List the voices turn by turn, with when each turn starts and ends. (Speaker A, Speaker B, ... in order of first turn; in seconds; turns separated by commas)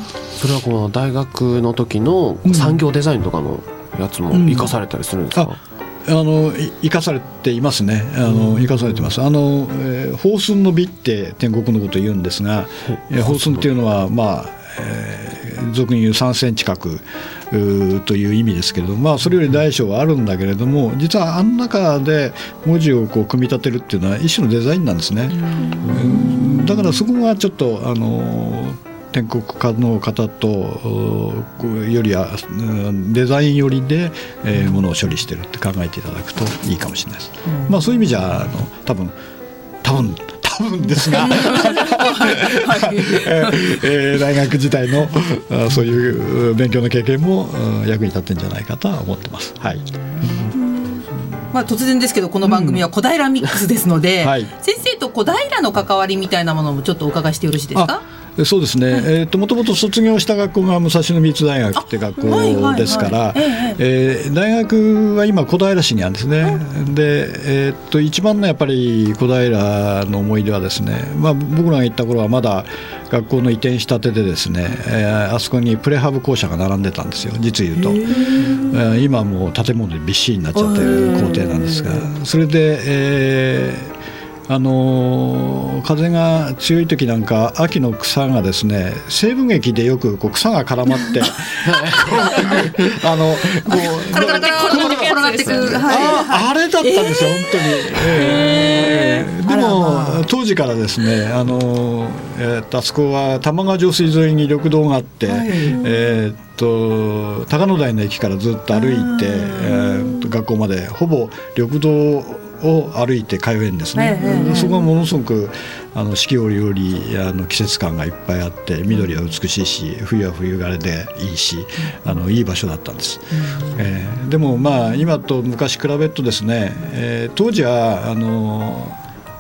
Speaker A: 0.4-5.6, Speaker B: 2.5-2.8, Speaker B: 4.3-4.8, Speaker B: 5.3-39.2, Speaker A: 12.9-13.7, Speaker C: 25.5-26.6, Speaker C: 37.5-37.8, Speaker B: 39.8-50.5, Speaker C: 41.4-43.7, Speaker C: 50.3-51.0, Speaker C: 51.5-58.0, Speaker B: 52.4-52.9, Speaker B: 54.2-54.5, Speaker B: 57.8-83.9, Speaker C: 61.8-63.8, Speaker C: 80.7-81.2, Speaker B: 84.5-129.0, Speaker A: 91.6-92.8, Speaker C: 93.7-100.3, Speaker C: 105.3-106.0, Speaker C: 108.7-110.1, Speaker C: 114.0-114.8, Speaker C: 123.3-123.8